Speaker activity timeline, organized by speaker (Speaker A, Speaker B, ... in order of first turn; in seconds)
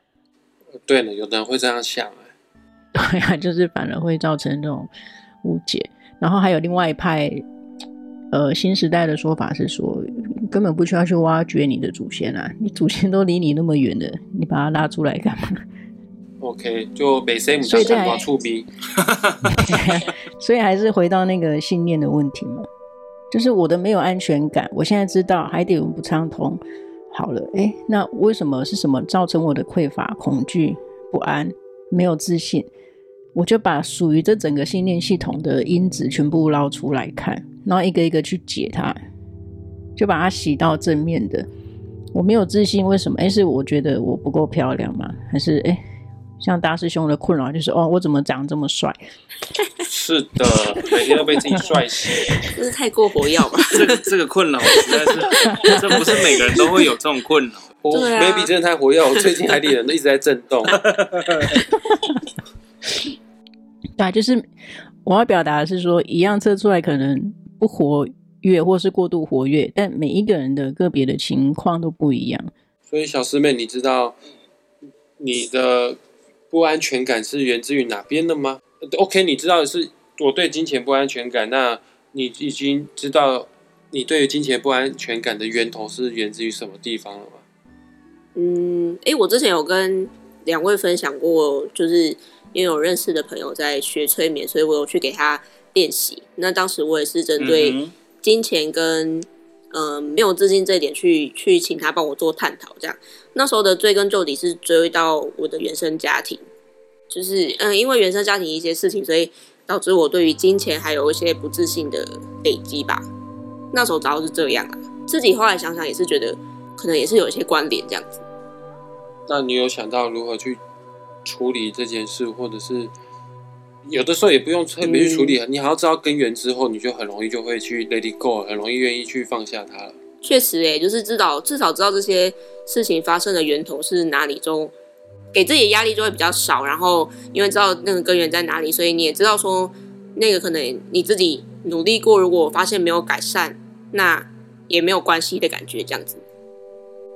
Speaker A: 0.8-2.3, 16.4-18.7, 49.8-52.4, 57.8-60.8, 72.9-74.2, 75.2-76.0, 76.5-87.4, 119.3-120.6, 121.2-122.9, 123.8-129.9
Speaker B: 2.9-4.9, 5.4-7.4, 8.3-15.6, 17.6-18.2, 19.5-22.7, 23.3-26.6, 27.1-32.7, 33.3-39.0, 40.0-41.5, 42.1-45.8, 46.4-49.0, 64.0-64.4, 65.0-72.5
Speaker C: 19.0-19.6, 53.7-57.8, 60.8-61.5, 97.4-97.9
Speaker D: 52.5-54.0, 54.7-56.8, 57.9-58.5, 88.3-106.4, 107.1-113.0, 113.7-118.2, 124.8-125.4, 130.2-134.7, 135.3-146.2